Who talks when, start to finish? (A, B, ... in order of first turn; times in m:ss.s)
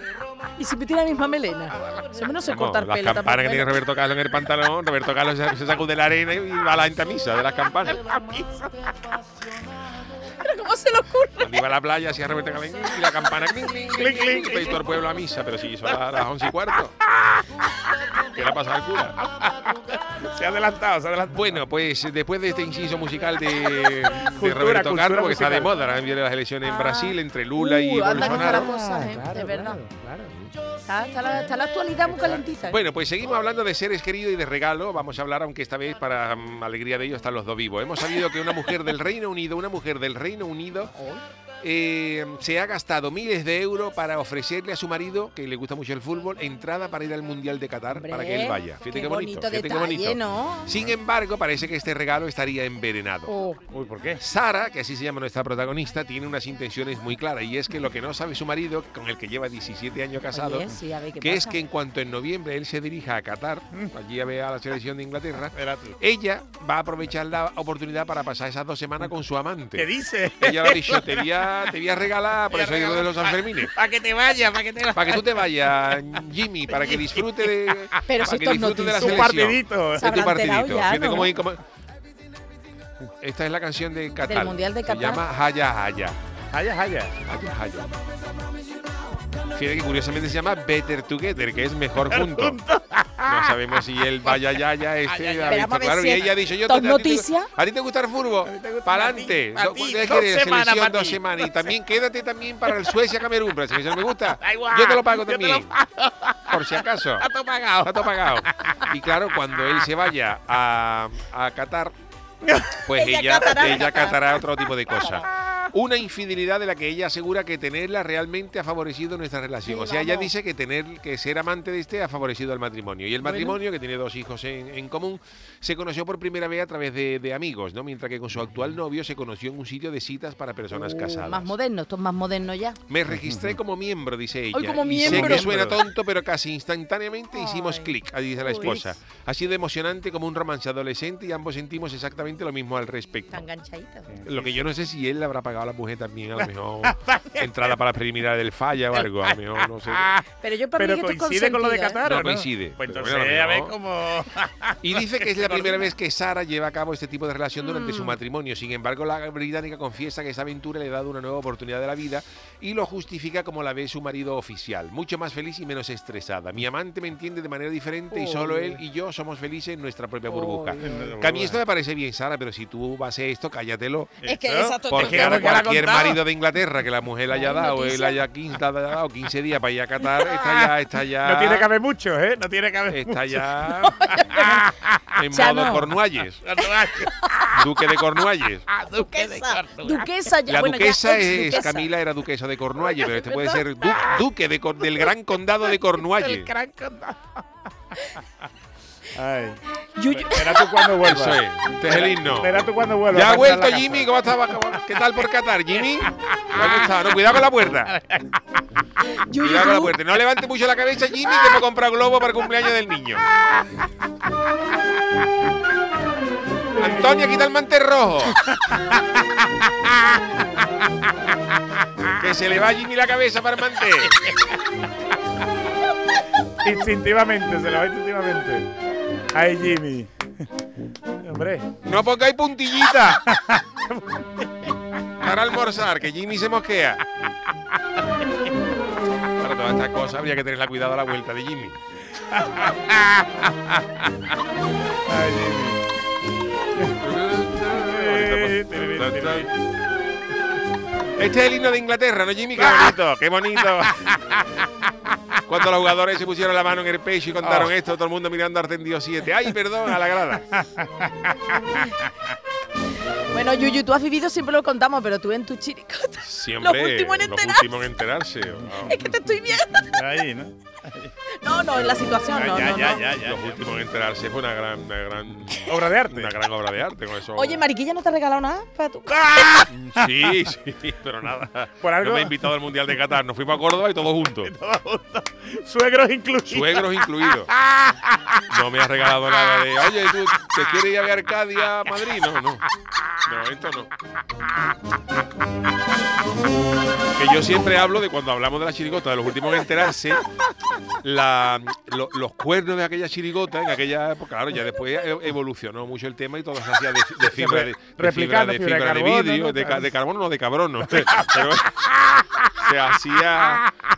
0:00.6-0:03.8 A
0:02.4-0:08.1 B
0:08.1-0:11.7 A
0:11.4-0:17.0 B
0:13.0-0:13.4 A
0:13.9-0:14.9 C
0:14.0-0:14.7 A
0:17.0-0:18.5 C
0:18.1-0:19.2 B
0:19.2-0:21.6 C
0:21.3-0:28.7 B
0:23.5-0:25.8 C
0:26.6-0:29.8 A
0:28.1-0:30.3 C
0:30.3-0:30.5 B
0:30.8-0:32.8 A
0:32.1-0:32.4 C
0:32.7-0:40.9 B
0:40.9-0:41.2 A
0:41.6-0:53.3 B
0:47.9-0:50.8 A
0:53.3-0:53.6 A
0:53.7-0:54.2 C
0:54.2-1:09.9 B
1:00.3-1:01.6 A
1:05.5-1:06.0 C
1:09.8-1:11.7 C
1:10.4-1:13.8 B
1:12.5-1:16.0 C
1:14.9-1:21.6 B
1:16.7-1:18.0 C
1:18.1-1:19.3 A
1:18.9-1:20.3 C
1:19.9-1:21.4 A
1:23.0-1:26.2 B
1:24.2-1:25.2 A
1:26.5-1:27.2 C
1:27.2-1:27.9 B
1:29.5-1:32.6 B
1:32.0-1:33.7 C
1:33.2-1:45.7 B
1:35.1-1:35.7 C
1:35.5-1:37.5 A
1:38.4-1:41.8 C
1:42.7-1:43.0 C
1:43.9-1:49.9 C
1:46.5-1:47.3 B
1:47.8-1:51.9 B
1:52.4-1:52.8 C
1:52.8-2:11.5 B
1:52.9-1:54.4 A
1:53.4-1:53.9 C
1:59.6-2:00.3 A
2:03.2-2:03.6 A
2:10.7-2:12.8 A
2:12.9-2:23.4 B
2:13.1-2:13.6 C
2:14.5-2:15.5 A
2:15.0-2:15.8 C
2:17.3-2:18.9 A
2:23.3-2:24.2 A
2:24.1-2:24.6 C
2:24.2-2:30.2 B
2:26.4-2:27.7 C
2:29.2-2:30.2 C
2:30.4-2:32.0 A
2:30.8-2:35.9 C
2:32.0-2:33.8 B
2:34.8-2:54.1 B
2:37.6-2:38.2 A
2:48.1-2:48.6 A
2:48.4-2:48.8 C
2:50.3-2:51.2 A
2:50.8-2:51.6 C
2:54.2-2:56.2 C
2:54.2-2:56.0 A
2:54.9-3:01.7 B
2:57.3-2:58.2 A
3:00.1-3:05.8 C
3:02.9-3:04.2 B
3:03.8-3:04.7 A
3:05.1-3:06.5 B
3:05.3-3:06.0 A
3:06.4-3:07.8 C
3:06.6-3:07.7 A
3:07.5-3:08.7 B
3:08.7-3:10.1 C
3:08.9-3:11.9 A
3:10.4-3:16.5 B
3:12.9-3:14.1 A
3:16.0-3:17.4 C
3:19.1-3:24.8 C
3:19.8-3:21.0 A
3:21.0-3:27.9 B
3:25.9-3:26.9 C
3:27.9-3:28.4 C
3:29.0-3:30.0 A
3:29.4-3:33.2 B
3:36.7-3:37.3 C
3:36.8-3:38.4 B
3:38.4-3:40.2 C
3:41.7-3:42.2 C
3:42.1-3:44.3 B
3:44.0-3:44.5 C
3:46.6-3:48.7 C
3:49.3-3:50.1 C
3:51.2-3:51.7 C
3:51.8-3:53.2 B
3:52.8-3:54.8 C
3:55.2-3:57.0 B
3:59.2-4:01.8 B
4:02.3-4:04.3 C
4:05.1-4:05.8 C
4:06.8-4:09.5 B
4:07.8-4:09.6 C
4:11.1-4:14.4 B
4:12.6-4:13.0 C
4:13.7-4:14.7 C
4:15.4-4:20.5 B
4:17.4-4:17.7 C
4:20.5-4:21.8 C
4:23.3-4:27.9 A
4:26.2-4:29.0 B
4:28.6-4:31.1 C
4:28.9-4:30.0 A
4:31.3-4:33.0 A
4:32.2-4:33.6 C
4:33.1-4:37.6 B
4:35.7-4:36.4 C
4:37.3-4:39.6 A
4:39.1-4:40.4 C
4:39.5-4:44.6 B
4:41.8-4:42.5 C
4:44.4-4:48.5 C
4:46.5-4:47.5 B
4:48.5-4:53.9 B
4:49.3-4:50.6 C
4:57.2-5:00.3 B
5:00.9-5:13.7 B
5:07.2-5:09.9 C
5:10.9-5:11.6 C